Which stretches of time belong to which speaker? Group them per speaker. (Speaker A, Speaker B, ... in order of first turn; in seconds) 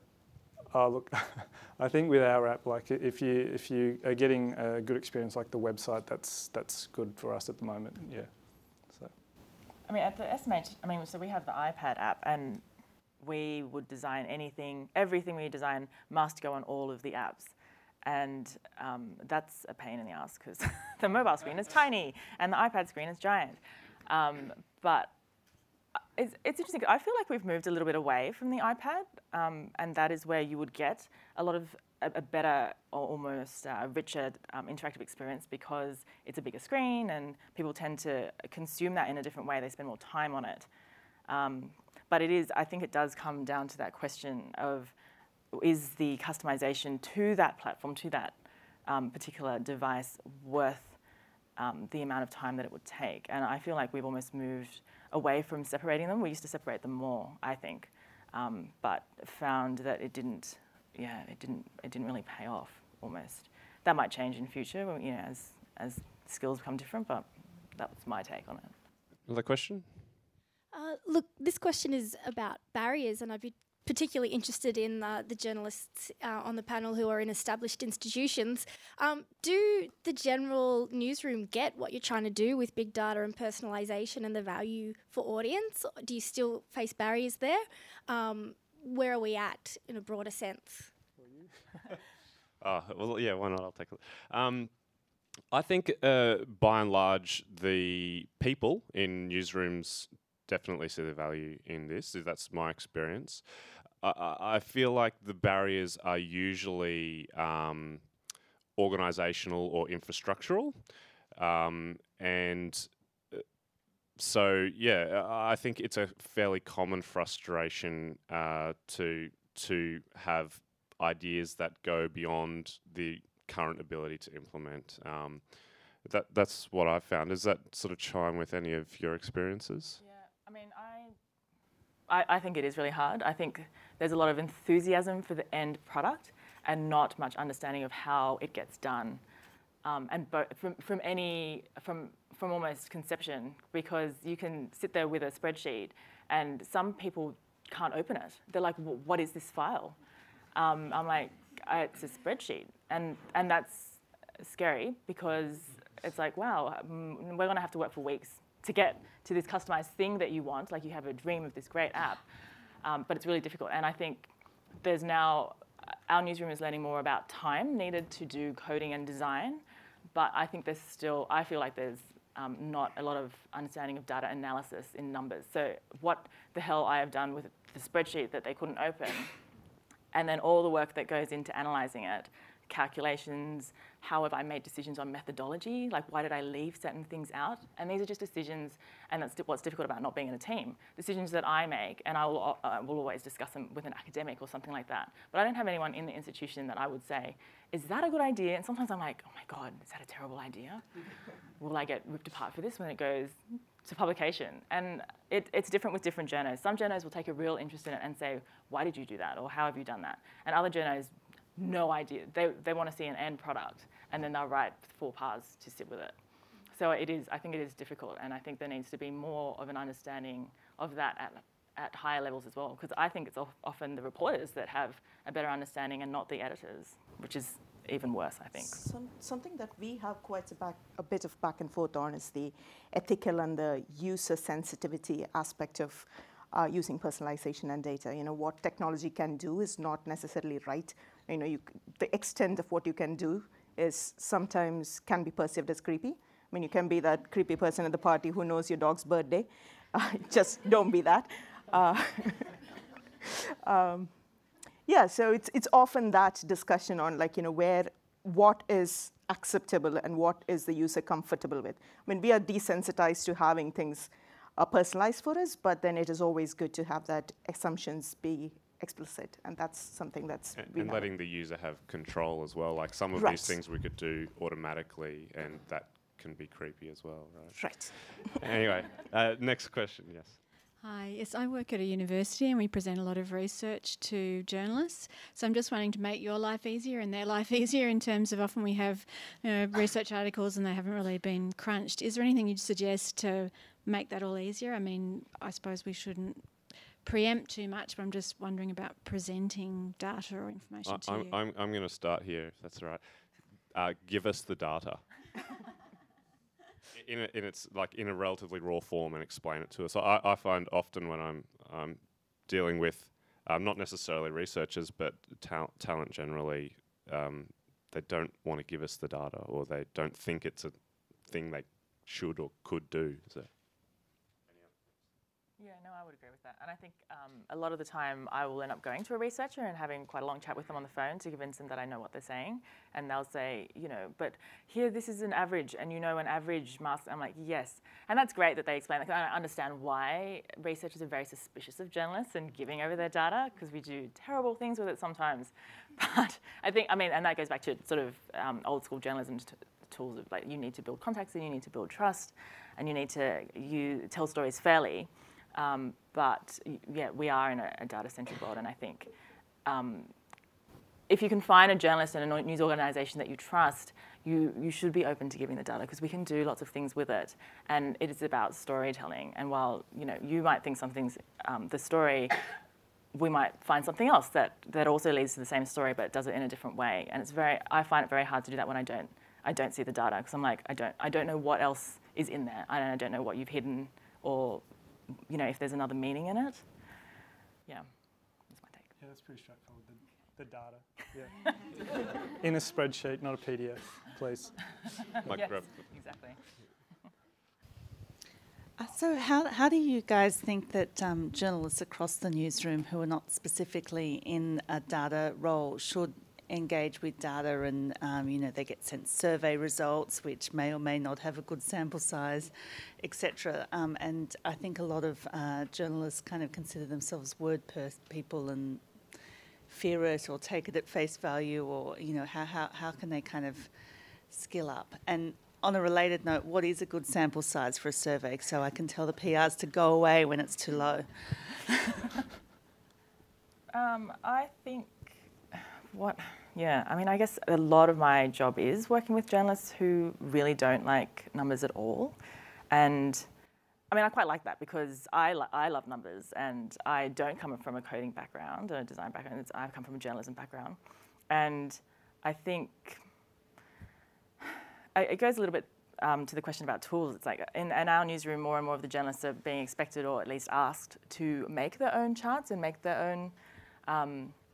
Speaker A: 0.7-9.1, 91.2-92.0, 389.0-395.2
Speaker B: 9.9-12.6, 13.2-25.1, 26.1-40.7, 41.3-44.9, 45.5-51.0, 51.6-68.7, 130.0-131.1, 132.1-139.2, 139.8-150.0, 150.5-162.2, 162.8-179.3, 180.1-200.8, 201.6-216.1, 216.7-228.8, 325.6-359.1, 359.6-360.1, 361.1-372.4, 373.1-384.7, 385.3-386.6, 388.5-388.9, 395.3-396.4, 433.7-442.1, 442.7-443.2, 443.9-450.8, 451.3-453.0, 454.4-464.4
Speaker C: 69.2-69.9, 92.6-94.8, 95.5-103.5, 104.0-108.1, 108.8-110.8, 111.3-113.4, 114.2-125.5, 126.0-130.0, 270.6-280.4, 300.9-303.0, 303.7-305.1, 306.9-323.5, 395.2-395.8
Speaker D: 70.7-90.9
Speaker E: 228.6-252.6, 253.2-254.1, 254.8-271.1, 273.1-273.6, 277.5-278.3
Speaker F: 280.8-301.4
Speaker G: 398.8-423.7, 424.3-431.7